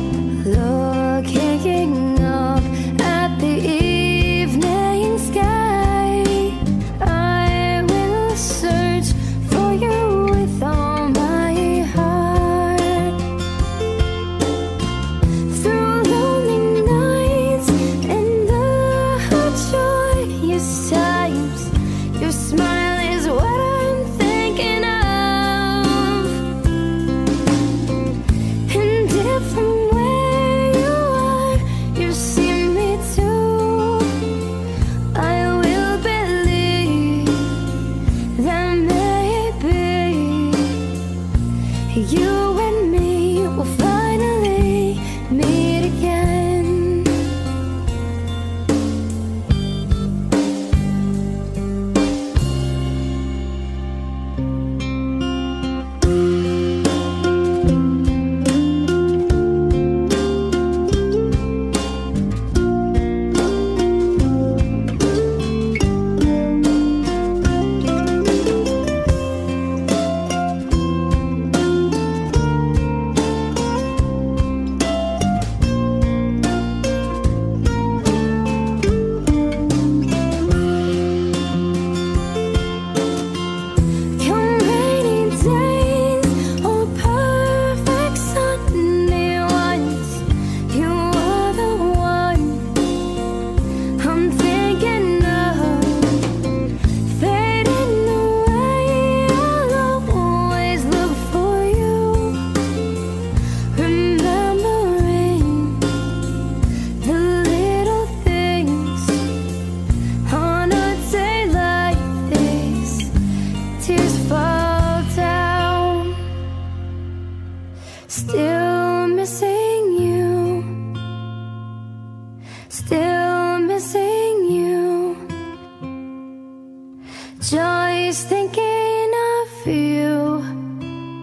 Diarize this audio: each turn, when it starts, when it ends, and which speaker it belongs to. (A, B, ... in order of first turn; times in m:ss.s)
0:00.4-0:13.2 A
0:15.5-0:26.5 A
0:28.7-0:34.3 A
0:35.1-0:40.9 A
0:41.9-0:47.3 A
1:24.2-1:32.8 A
1:34.0-1:36.4 A
1:37.0-1:42.4 A
1:43.7-1:46.1 A
1:47.0-1:49.3 A
1:50.2-1:53.1 A
1:53.8-1:56.2 A
1:58.1-2:00.8 A
2:02.7-2:05.2 A
2:07.4-2:10.5 A